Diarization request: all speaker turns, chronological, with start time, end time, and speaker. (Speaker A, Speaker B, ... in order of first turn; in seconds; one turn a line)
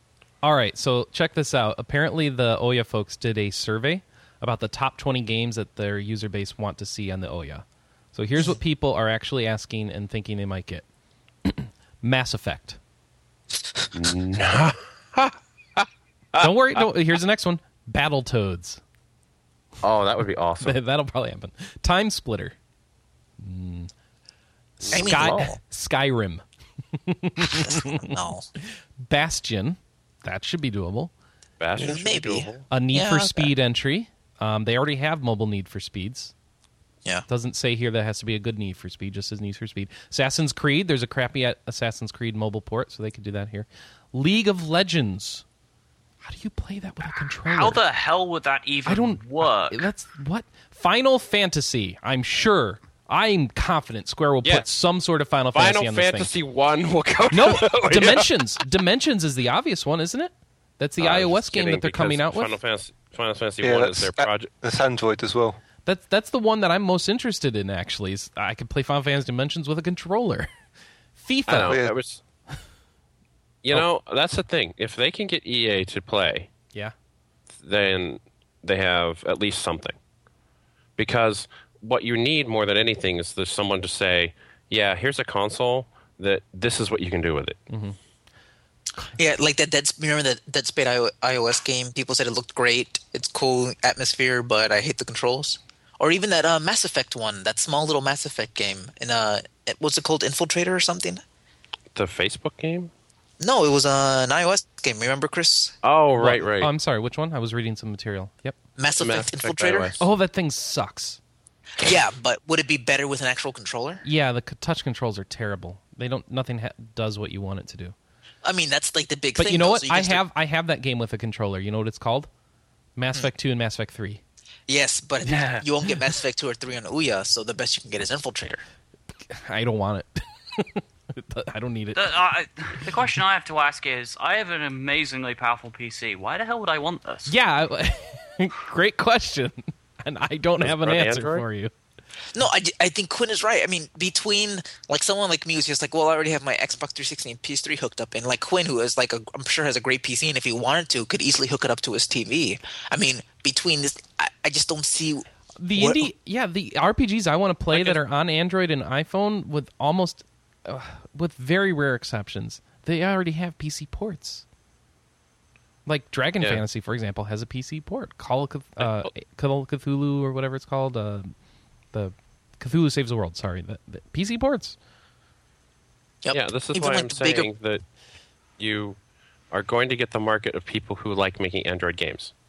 Speaker A: 0.4-10.9
Speaker A: 11.4-12.8
Speaker B: 13.9-16.5
Speaker A: 16.4-18.8
Speaker B: 19.8-20.8
Speaker A: 20.6-22.6
Speaker A: 23.4-23.9
Speaker A: 24.8-26.4
Speaker B: 24.8-25.5
Speaker C: 24.9-25.6
Speaker A: 27.0-28.1
Speaker C: 27.4-28.5
Speaker A: 29.0-31.1
Speaker B: 31.6-32.6
Speaker C: 31.8-33.5
Speaker A: 32.7-36.3
Speaker A: 37.3-45.4
Speaker A: 46.2-47.8
Speaker D: 47.5-49.9
Speaker A: 48.9-56.3
Speaker B: 55.5-58.3
Speaker A: 57.3-62.5
Speaker B: 61.0-64.5
Speaker E: 63.6-65.6
Speaker A: 65.9-70.5
Speaker A: 71.2-71.8
Speaker B: 71.5-72.2
Speaker E: 71.7-71.9
Speaker B: 73.6-76.5
Speaker B: 77.6-80.0
Speaker B: 81.0-87.6
Speaker A: 87.7-88.0
Speaker C: 89.1-101.2
Speaker B: 102.0-102.9
Speaker C: 103.4-105.8
Speaker B: 105.8-106.7
Speaker A: 106.2-108.6
Speaker C: 108.8-109.9
Speaker B: 109.0-110.0
Speaker A: 110.0-111.2
Speaker C: 111.8-114.0
Speaker A: 114.0-118.0
Speaker C: 118.4-120.2
Speaker A: 119.4-122.3
Speaker A: 123.0-124.2
Speaker C: 124.7-128.6
Speaker A: 129.3-132.1
Speaker D: 131.9-137.3
Speaker A: 137.3-141.7
Speaker B: 140.6-141.4
Speaker C: 142.3-156.1
Speaker A: 155.6-164.4
Speaker B: 157.7-158.0
Speaker A: 165.9-171.3
Speaker B: 168.8-169.1
Speaker A: 171.9-174.8
Speaker C: 176.2-177.5
Speaker B: 176.3-177.8
Speaker B: 178.6-179.0
Speaker B: 179.5-182.3